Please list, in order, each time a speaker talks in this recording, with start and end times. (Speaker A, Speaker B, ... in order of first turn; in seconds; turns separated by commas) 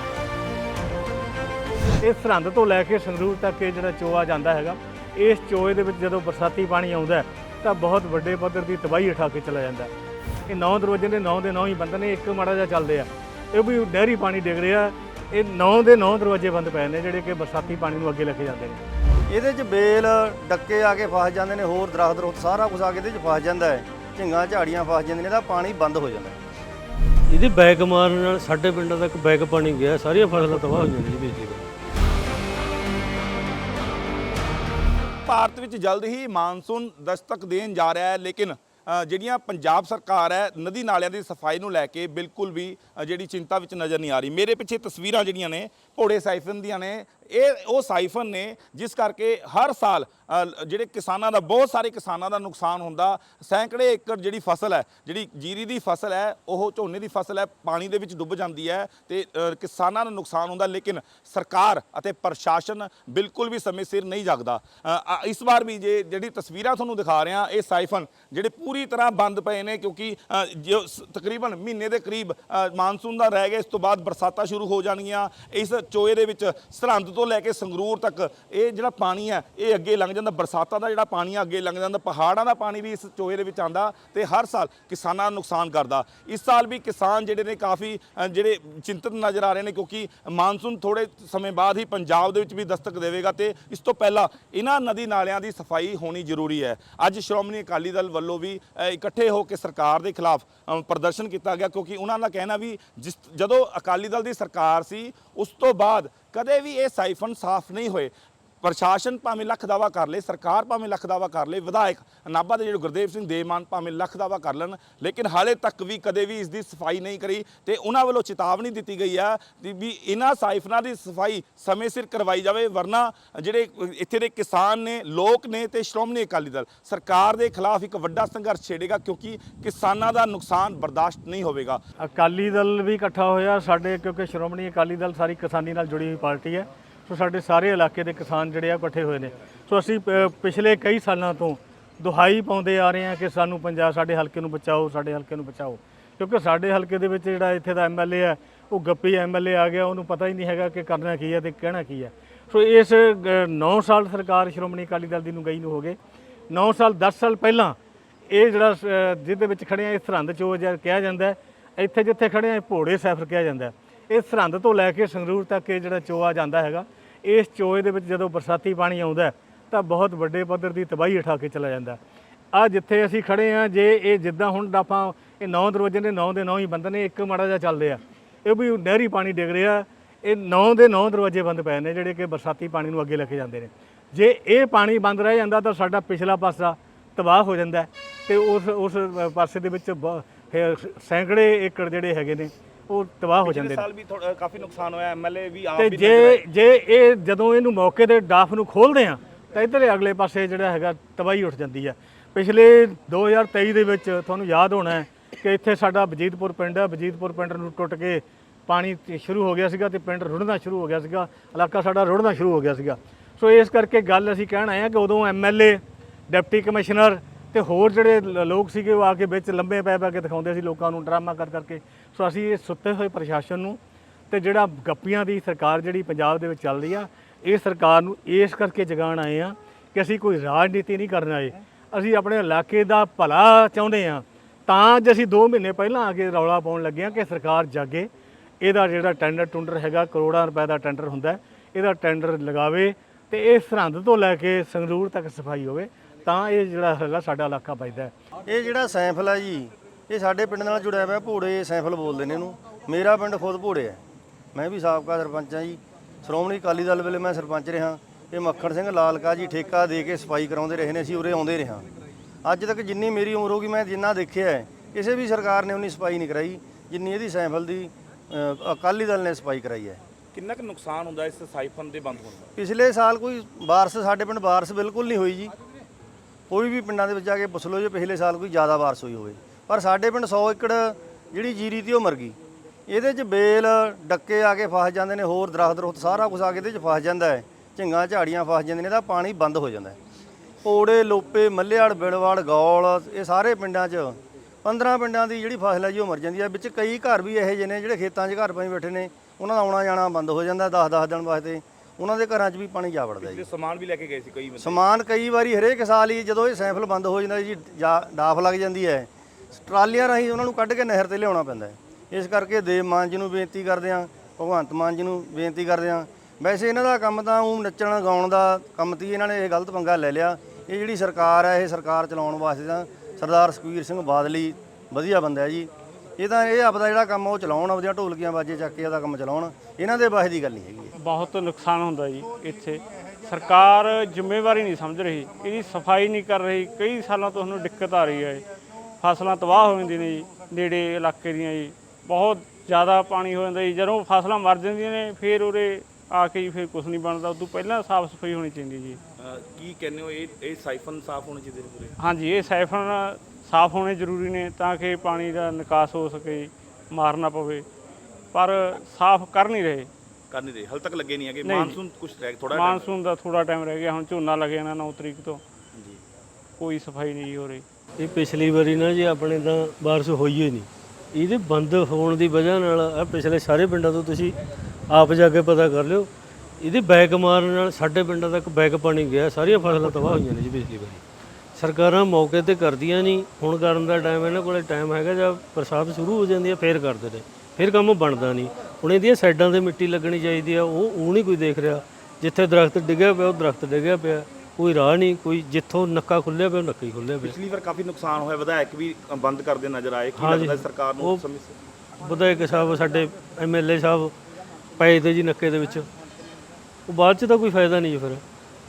Speaker A: 2.0-9.9, Speaker A: 10.5-18.8, Speaker B: 19.3-26.4, Speaker C: 27.3-31.7, Speaker D: 35.3-108.1, Speaker D: 108.6-131.8, Speaker A: 132.0-156.0, Speaker A: 156.5-157.8, Speaker A: 158.3-172.0, Speaker A: 172.5-193.8, Speaker D: 193.5-196.4, Speaker A: 195.8-223.8, Speaker A: 224.3-238.1, Speaker A: 238.6-248.1, Speaker B: 248.5-254.0, Speaker B: 254.5-261.9, Speaker B: 262.4-270.0, Speaker D: 270.3-272.5, Speaker B: 272.6-275.5, Speaker B: 276.5-290.0, Speaker B: 290.6-303.4, Speaker D: 303.2-304.8, Speaker B: 304.6-330.9, Speaker E: 331.0-338.4, Speaker E: 339.0-349.0, Speaker D: 349.2-351.9, Speaker E: 352.0-357.6, Speaker E: 358.3-359.9, Speaker D: 360.3-362.7, Speaker E: 361.4-361.8, Speaker E: 362.5-365.4, Speaker E: 366.6-367.6, Speaker C: 368.0-374.4, Speaker C: 374.9-381.0, Speaker C: 381.6-397.4, Speaker D: 397.2-401.5, Speaker C: 400.2-401.2, Speaker C: 401.9-404.1, Speaker C: 404.8-405.9, Speaker C: 406.9-408.2